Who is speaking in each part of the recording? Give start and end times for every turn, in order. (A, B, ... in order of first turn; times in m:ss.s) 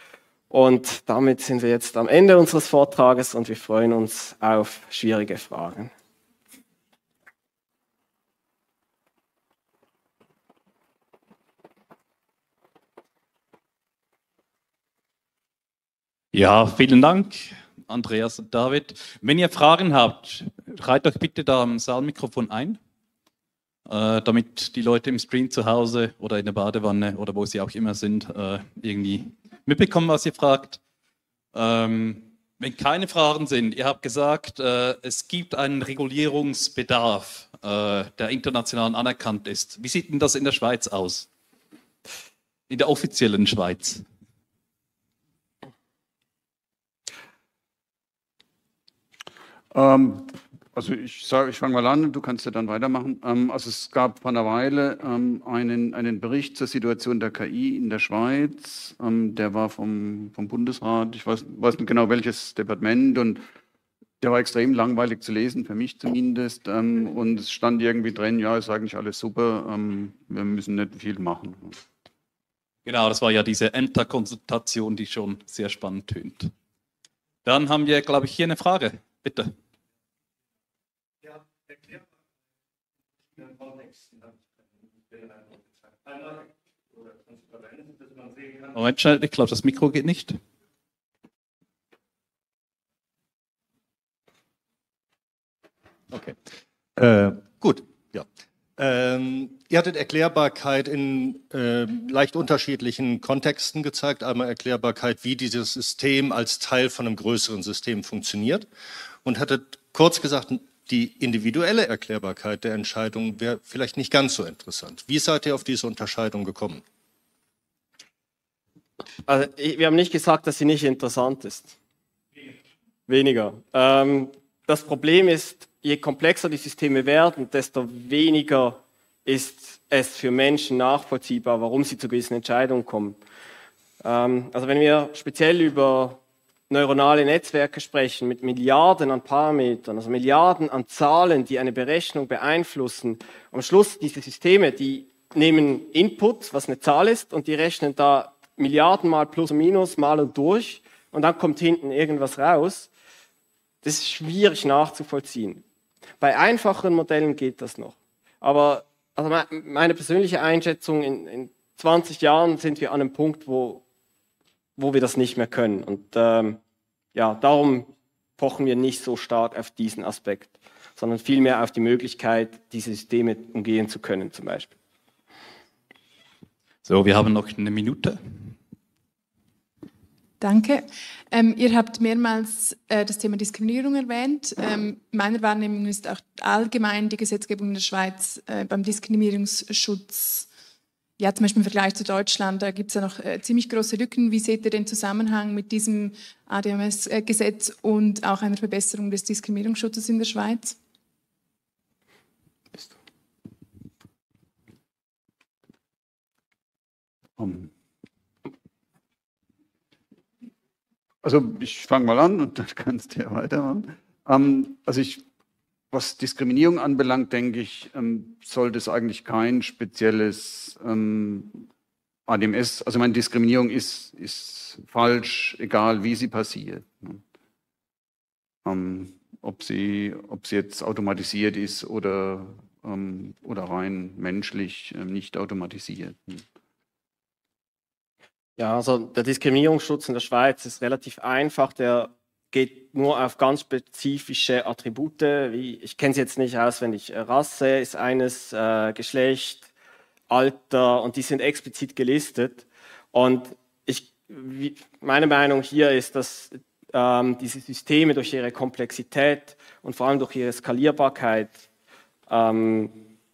0:00.5-0:05.9 A
0:16.3-0:22.8 B
0:23.9-0:30.8 B
0:31.5-0:41.3 B
0:42.7-0:44.0 B
0:49.7-1:03.4 C
1:04.2-1:11.8 C
1:12.8-1:16.5 B
1:17.4-1:19.5 B
1:28.7-1:30.4 B
1:36.1-1:36.4 D
1:37.0-1:38.3 D
1:38.8-1:48.7 D
1:49.2-1:56.8 D
1:59.3-2:01.8 A
2:03.1-2:13.2 A
2:14.0-2:32.9 A
2:33.8-2:35.6 A
2:36.2-2:43.8 A
2:44.8-2:46.6 A
2:47.1-2:54.7 A
2:56.8-2:58.5 B
3:00.4-3:10.5 E
3:11.2-3:20.8 E
3:27.4-3:27.7 C
3:31.2-3:35.2 C
3:35.9-3:41.6 C
3:42.3-3:47.2 C
3:48.6-3:56.4 C
3:58.6-4:09.7 A
4:10.3-4:21.6 A
4:22.3-4:23.0 A